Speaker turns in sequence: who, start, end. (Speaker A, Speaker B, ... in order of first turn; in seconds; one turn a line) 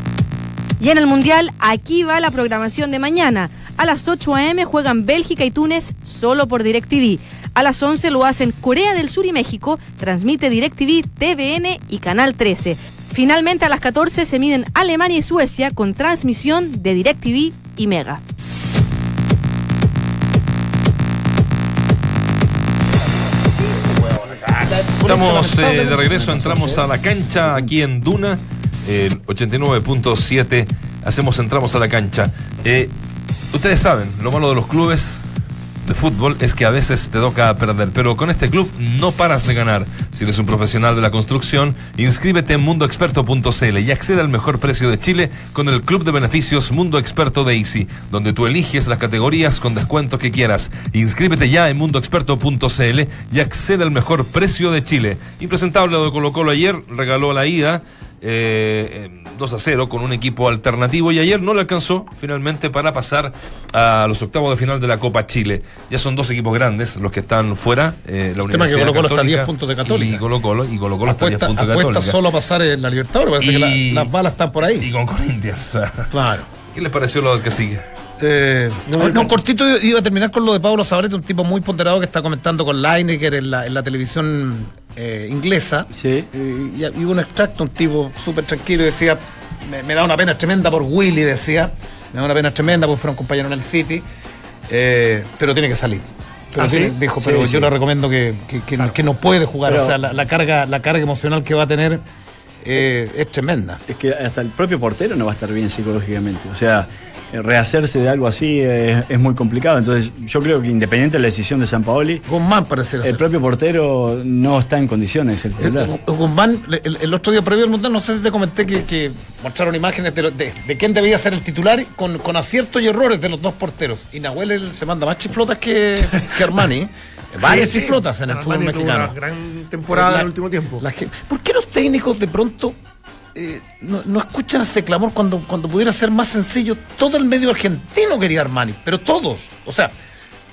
Speaker A: 0.8-18.2
Speaker B: 23.2-26.9
Speaker C: 25.0-32.9
Speaker C: 33.5-35.2
Speaker C: 35.8-72.2
Speaker B: 68.4-70.2
Speaker B: 71.0-74.9
Speaker C: 73.4-74.1
Speaker C: 74.7-76.1
Speaker B: 76.1-76.5
Speaker C: 76.7-77.8
Speaker B: 78.2-94.0
Speaker D: 78.8-79.3
Speaker E: 85.9-86.3
Speaker B: 94.7-102.0
Speaker D: 96.5-97.0
Speaker E: 97.2-97.7
Speaker E: 99.7-100.0
Speaker B: 102.6-103.8
Speaker E: 103.9-112.2
Speaker B: 112.2-113.2
Speaker E: 113.0-116.0
Speaker B: 115.6-129.1
Speaker D: 127.4-130.8
Speaker B: 129.9-132.8
Speaker B: 133.3-139.9